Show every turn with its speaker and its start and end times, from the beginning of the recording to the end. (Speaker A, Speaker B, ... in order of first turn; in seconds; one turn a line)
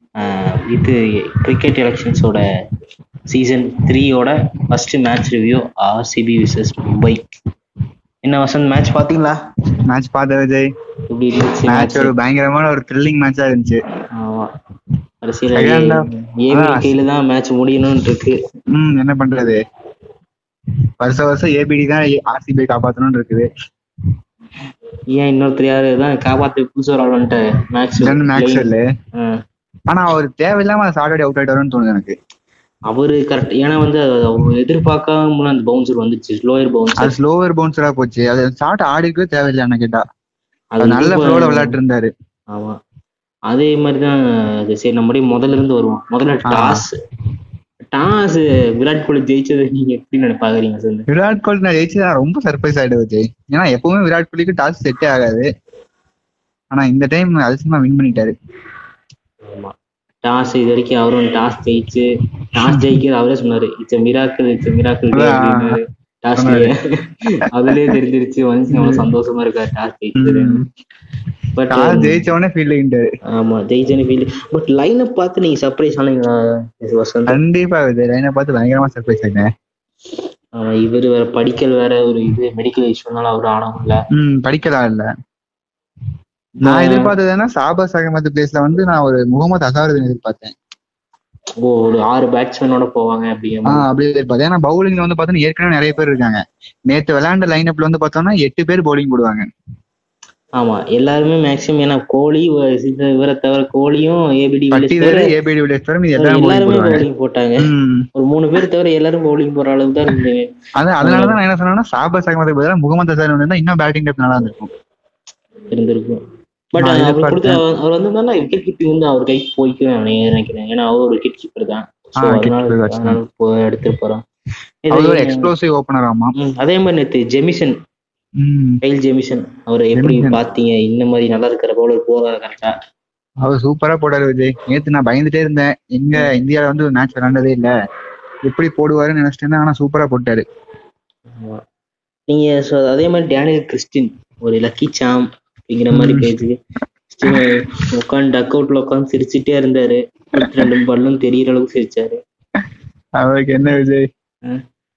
Speaker A: 0.2-2.4
Speaker A: 3.3-7.2
Speaker A: 8.2-9.3
Speaker B: 9.9-10.7
Speaker A: 11.1-12.1
Speaker B: 11.7-13.8
Speaker A: 14.2-14.5
Speaker A: 15.2-18.4
Speaker B: 15.6-16.9
Speaker B: 18.8-19.6
Speaker B: 21.0-23.5
Speaker A: 25.1-28.7
Speaker B: 28.0-28.8
Speaker B: 29.9-32.1
Speaker A: 32.9-37.1
Speaker B: 37.0-40.0
Speaker A: 40.8-41.8
Speaker B: 40.8-42.1
Speaker A: 42.5-42.8
Speaker A: 43.5-44.1
Speaker A: 44.7-46.9
Speaker B: 46.5-46.8
Speaker A: 47.9-51.1
Speaker B: 51.1-55.5
Speaker B: 56.7-58.3
Speaker A: 59.5-66.8
Speaker B: 65.1-65.8
Speaker B: 66.4-66.7
Speaker A: 67.5-70.6
Speaker B: 68.8-69.0
Speaker B: 70.2-70.7
Speaker A: 71.6-72.2
Speaker B: 71.7-73.1
Speaker A: 73.3-77.4
Speaker B: 77.3-79.5
Speaker A: 80.6-84.0
Speaker B: 84.2-85.1
Speaker A: 86.6-87.1
Speaker B: 86.7-90.5
Speaker A: 91.6-93.8
Speaker B: 93.7-96.4
Speaker B: 96.9-99.5
Speaker A: 100.6-105.3
Speaker B: 104.7-107.0
Speaker A: 106.2-110.5
Speaker B: 107.6-108.1
Speaker B: 110.8-114.7
Speaker A: 111.0-111.4
Speaker A: 115.7-116.2
Speaker A: 116.8-124.2
Speaker B: 116.8-117.6
Speaker B: 122.2-123.2
Speaker A: 124.9-125.5
Speaker B: 124.9-126.3
Speaker A: 126.4-127.8
Speaker B: 128.4-128.8
Speaker A: 128.8-132.7
Speaker B: 129.9-130.4
Speaker B: 133.4-137.7
Speaker B: 138.4-140.4
Speaker A: 142.3-146.6
Speaker B: 145.9-146.3
Speaker A: 147.1-152.2
Speaker B: 153.2-154.1